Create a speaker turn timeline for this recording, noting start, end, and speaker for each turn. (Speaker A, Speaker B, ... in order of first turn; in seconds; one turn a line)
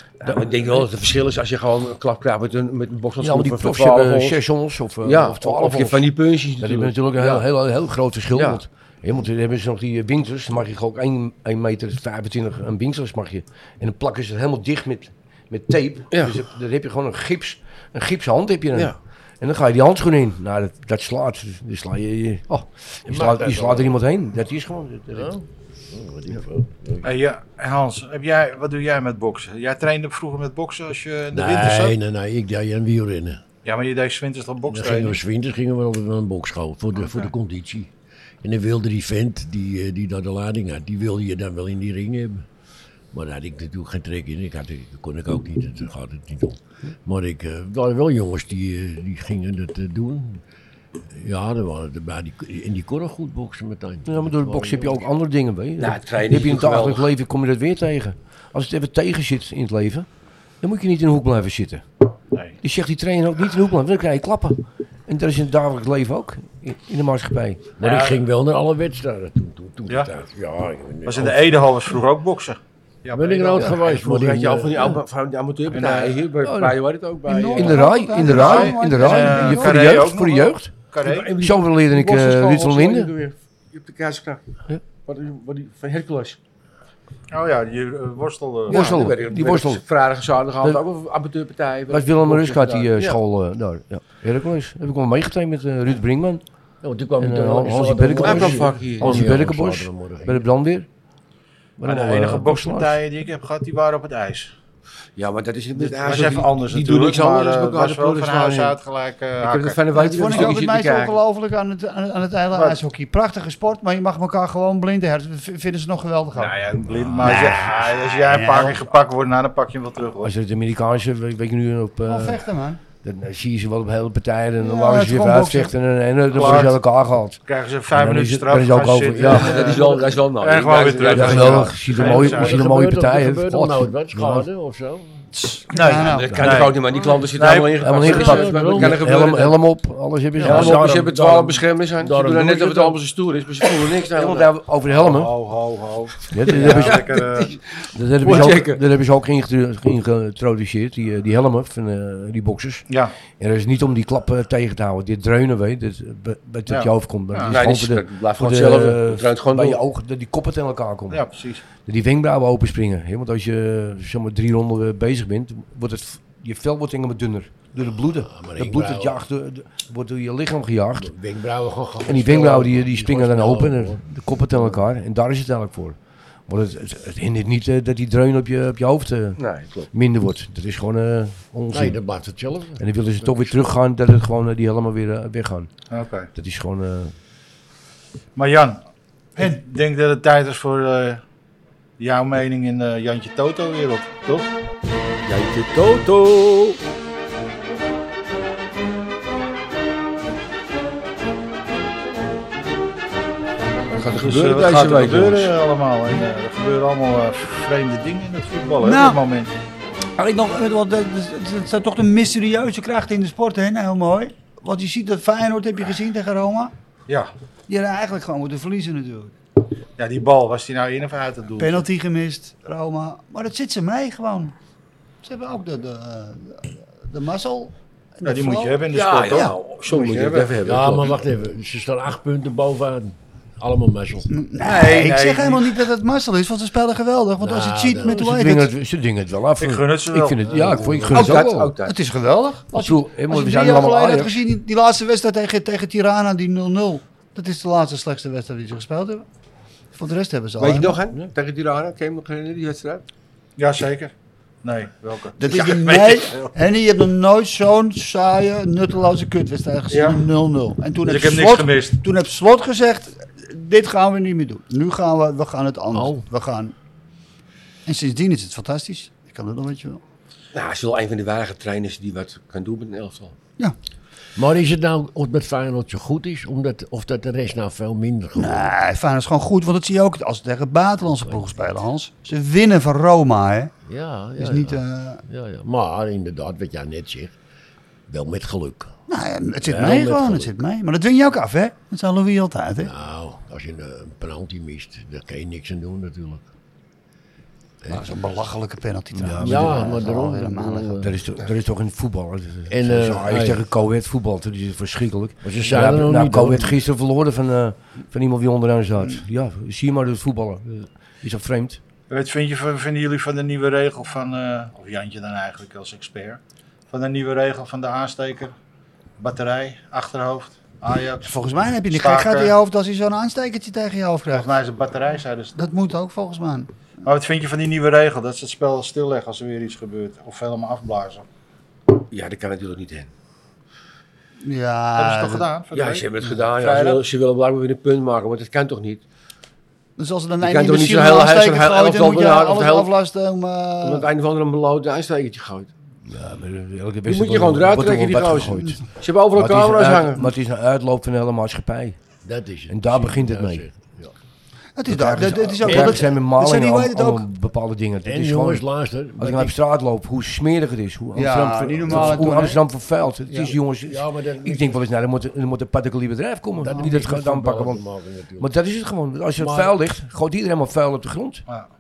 Speaker A: 0.2-0.9
Speaker B: 0.2-4.4
Speaker A: 3.2-25.3
Speaker B: 5.0-7.5
Speaker B: 8.3-8.6
Speaker C: 23.1-24.0
Speaker C: 25.1-27.1
Speaker D: 27.0-32.0
Speaker C: 31.3-33.4
Speaker D: 33.6-35.2
Speaker C: 34.7-37.9
Speaker D: 37.0-37.3
Speaker C: 38.4-42.5
Speaker C: 43.1-50.4
Speaker C: 51.1-55.1
Speaker A: 54.1-60.1
Speaker B: 55.8-57.1
Speaker A: 60.6-61.9
Speaker A: 62.6-67.7
Speaker C: 67.8-71.7
Speaker D: 67.8-68.2
Speaker D: 71.1-73.8
Speaker C: 73.1-75.0
Speaker B: 73.7-77.9
Speaker D: 75.7-76.2
Speaker A: 76.4-76.8
Speaker E: 77.3-79.9
Speaker A: 77.5-80.7
Speaker D: 78.2-81.3
Speaker B: 81.0-84.4
Speaker A: 81.4-83.1
Speaker B: 85.0-86.4
Speaker D: 87.3-88.9
Speaker A: 88.7-89.8
Speaker B: 88.7-93.2
Speaker A: 91.9-96.4
Speaker C: 96.8-100.5
Speaker A: 97.2-100.9
Speaker B: 98.2-99.3
Speaker A: 101.8-103.0
Speaker D: 101.8-104.5
Speaker B: 105.2-108.8
Speaker D: 105.8-110.6
Speaker B: 109.4-111.2
Speaker E: 109.9-116.6
Speaker D: 116.3-120.3
Speaker A: 117.0-117.3
Speaker E: 117.2-118.8
Speaker A: 120.2-122.4
Speaker E: 122.1-122.8
Speaker A: 123.0-129.6
Speaker E: 124.6-125.7
Speaker D: 126.3-126.8
Speaker D: 127.5-132.6
Speaker B: 129.3-131.8
Speaker C: 129.4-130.1
Speaker A: 131.1-134.5
Speaker C: 131.8-135.2
Speaker E: 135.3-136.6
Speaker D: 135.7-138.1
Speaker B: 136.0-139.6
Speaker A: 137.8-140.9
Speaker C: 138.0-139.5
Speaker C: 140.4-143.0
Speaker B: 140.4-144.5
Speaker A: 144.1-145.3
Speaker D: 144.9-147.6
Speaker A: 146.3-147.1
Speaker B: 146.5-148.8
Speaker A: 147.9-161.2
Speaker D: 152.9-153.1
Speaker D: 156.7-157.6
Speaker B: 157.5-159.8
Speaker D: 161.1-161.6
Speaker A: 161.8-171.1
Speaker C: 168.3-169.2
Speaker C: 171.0-174.8
Speaker A: 172.1-182.0
Speaker B: 179.4-179.9
Speaker C: 181.7-183.7
Speaker A: 182.8-185.7
Speaker D: 185.9-186.3
Speaker A: 186.3-187.2
Speaker D: 188.4-188.8
Speaker D: 189.4-191.2
Speaker D: 192.0-194.5
Speaker B: 195.2-196.8
Speaker B: 204.0-205.5
Speaker D: 204.2-209.5
Speaker E: 208.8-209.2
Speaker E: 210.2-216.7
Speaker E: 217.7-219.3
Speaker D: 220.0-221.8
Speaker E: 221.6-224.6
Speaker E: 225.2-228.8
Speaker D: 228.2-230.6
Speaker B: 228.9-231.2
Speaker C: 230.6-234.3
Speaker E: 234.3-238.7
Speaker D: 234.6-235.8
Speaker C: 237.4-238.2
Speaker A: 238.0-241.7
Speaker D: 239.6-240.7
Speaker C: 240.5-241.3
Speaker B: 241.1-242.0
Speaker E: 241.8-249.3
Speaker A: 242.7-244.4
Speaker E: 249.9-251.0
Speaker B: 250.6-253.0
Speaker D: 253.6-256.5
Speaker E: 255.4-266.7
Speaker D: 259.9-260.2
Speaker D: 261.0-262.0
Speaker C: 265.9-266.2
Speaker E: 267.9-270.0
Speaker B: 270.5-273.3
Speaker C: 274.4-278.7
Speaker E: 278.4-283.7
Speaker C: 281.2-281.6
Speaker C: 283.9-287.4
Speaker E: 284.4-285.2
Speaker C: 288.1-288.9
Speaker E: 289.1-292.9
Speaker C: 289.6-290.6
Speaker C: 292.8-296.4
Speaker C: 297.8-298.1
Speaker E: 297.9-301.0
Speaker A: 299.1-299.9
Speaker C: 299.4-301.1
Speaker A: 301.0-311.8
Speaker C: 302.7-303.6
Speaker C: 305.4-306.8
Speaker D: 312.1-318.5
Speaker D: 319.2-322.6
Speaker E: 321.2-324.5
Speaker D: 324.3-325.6
Speaker E: 325.6-326.7
Speaker D: 327.0-331.2
Speaker B: 332.1-333.1
Speaker E: 334.4-335.5
Speaker D: 335.0-337.0
Speaker B: 335.7-339.0
Speaker E: 340.0-344.1
Speaker B: 340.4-342.9
Speaker B: 343.8-345.7
Speaker A: 346.1-352.0
Speaker B: 347.1-350.3
Speaker C: 352.2-354.1
Speaker A: 352.7-353.7
Speaker E: 354.8-357.3
Speaker A: 354.9-367.8
Speaker C: 358.1-359.6
Speaker E: 361.1-362.6
Speaker C: 361.9-362.5
Speaker E: 363.3-363.5
Speaker C: 363.5-364.8
Speaker C: 366.6-368.5
Speaker A: 368.4-371.4
Speaker C: 369.4-369.8